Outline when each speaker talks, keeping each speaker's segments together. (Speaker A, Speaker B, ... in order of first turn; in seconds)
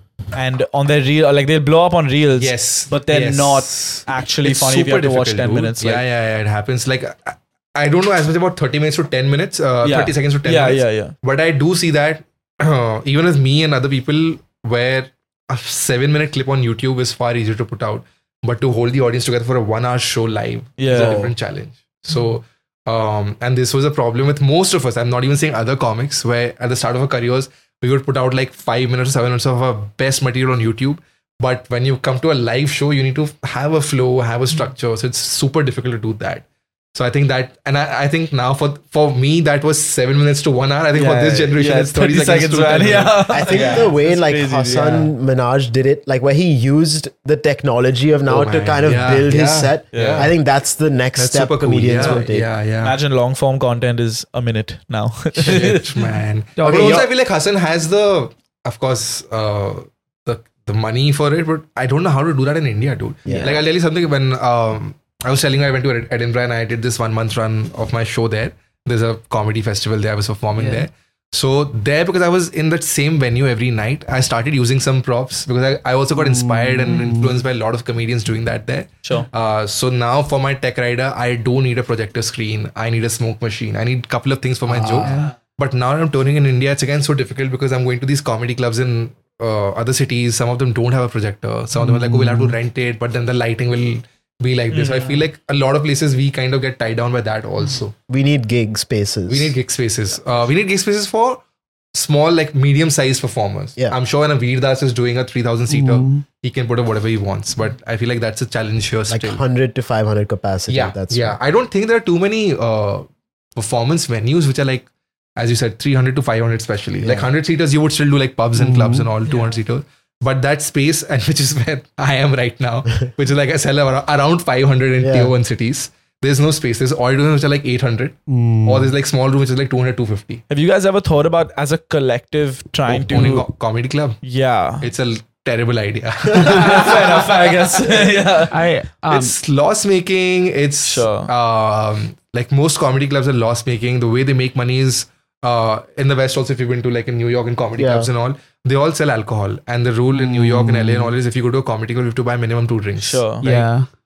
Speaker A: 0.3-6.0, 9.8-11.1, 20.8-21.2, 41.0-45.1, 49.9-50.3, 52.8-56.0, 130.5-133.5, 134.2-134.9, 136.3-138.6, 140.8-141.3, 153.0-153.4
Speaker B: 2.4-43.9, 44.7-45.0, 48.3-50.3, 51.2-53.0, 55.4-97.9, 99.3-101.4, 101.9-109.4, 110.7-130.4, 132.9-134.2, 134.8-137.8, 139.1-153.7
Speaker C: 20.9-21.3, 43.3-52.5, 63.3-63.6, 84.7-85.0, 98.1-99.6, 109.1-111.4, 117.0-117.3, 125.0-125.3, 147.8-148.1
Speaker D: 56.6-57.1, 70.6-70.8, 76.2-77.4, 91.8-92.5, 105.7-106.2, 118.6-119.1, 128.3-128.9, 136.4-136.8, 138.5-139.3, 150.1-151.1, 153.4-153.9